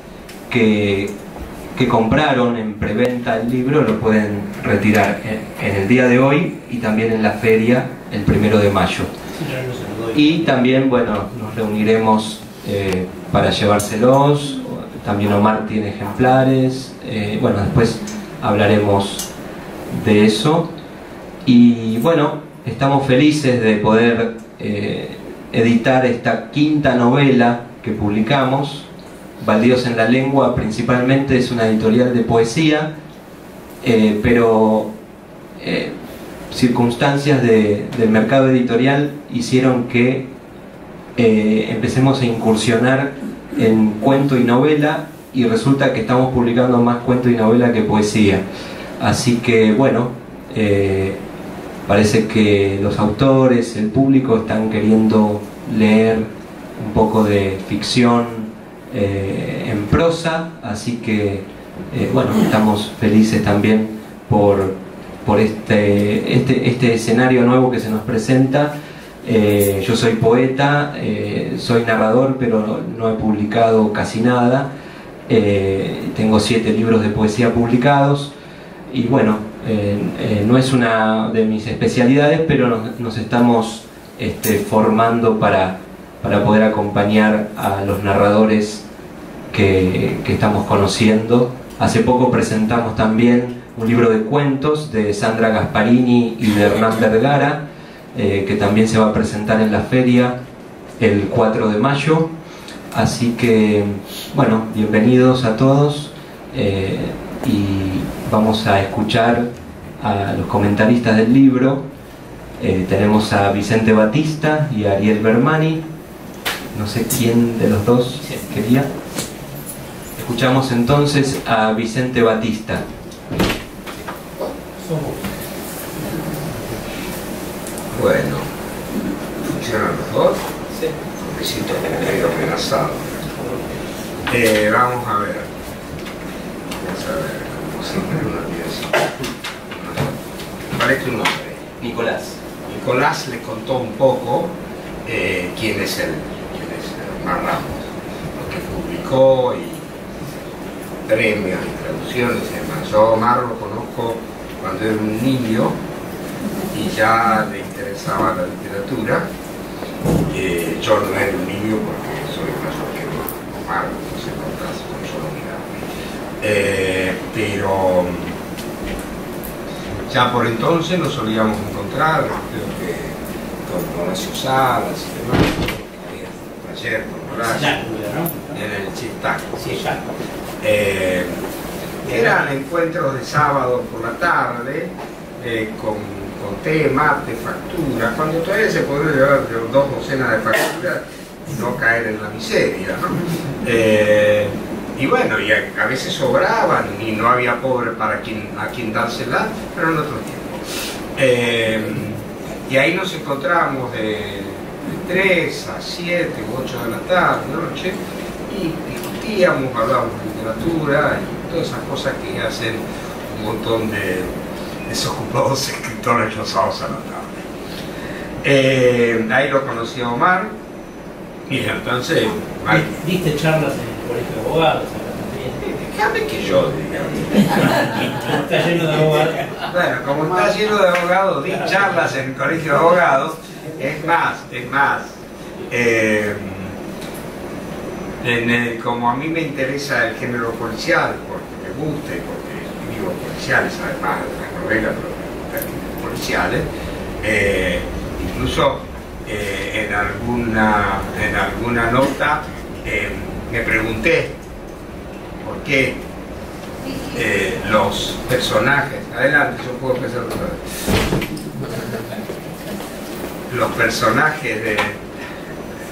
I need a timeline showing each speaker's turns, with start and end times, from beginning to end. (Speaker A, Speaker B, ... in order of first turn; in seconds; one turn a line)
Speaker A: 0.5-1.1
Speaker A: 1.7-9.1
Speaker B: 9.3-10.6
Speaker A: 10.1-19.3
Speaker A: 19.9-20.7
Speaker A: 21.4-28.9
Speaker A: 29.4-32.9
Speaker A: 33.8-34.9
Speaker A: 35.6-35.9
Speaker A: 36.5-40.3
Speaker A: 41.1-48.4
Speaker A: 49.0-51.2
Speaker A: 51.9-74.7
Speaker A: 75.3-78.3
Speaker A: 78.9-88.8
Speaker A: 89.5-100.4
Speaker A: 101.0-102.3
Speaker A: 102.9-109.5
Speaker A: 110.0-111.8
Speaker A: 112.6-115.8
Speaker A: 116.7-118.9
Speaker A: 120.2-122.8
Speaker B: 124.8-125.2
Speaker C: 127.9-128.5
Speaker C: 129.4-130.4
Speaker C: 131.2-133.5
Speaker C: 134.3-135.5
Speaker C: 136.7-139.1
Speaker C: 139.7-141.8
Speaker A: 141.8-142.3
Speaker C: 142.6-149.9
Speaker C: 151.1-155.8
Speaker C: 156.7-159.3
Speaker C: 160.3-165.9
Speaker C: 166.4-168.3
Speaker C: 170.0-177.8
Speaker B: 177.4-178.5
Speaker C: 178.5-180.0
Speaker B: 179.6-180.1
Speaker C: 180.6-181.4
Speaker C: 182.0-200.6
Speaker B: 182.0-182.4
Speaker C: 201.2-214.3
Speaker C: 214.9-217.4
Speaker C: 218.4-220.5
Speaker C: 221.5-222.9
Speaker B: 222.7-225.6
Speaker C: 225.6-236.7
Speaker B: 227.4-229.6
Speaker C: 238.2-246.7
Speaker C: 247.2-254.4
Speaker C: 255.4-256.0
Speaker C: 257.0-260.7
Speaker C: 263.5-265.0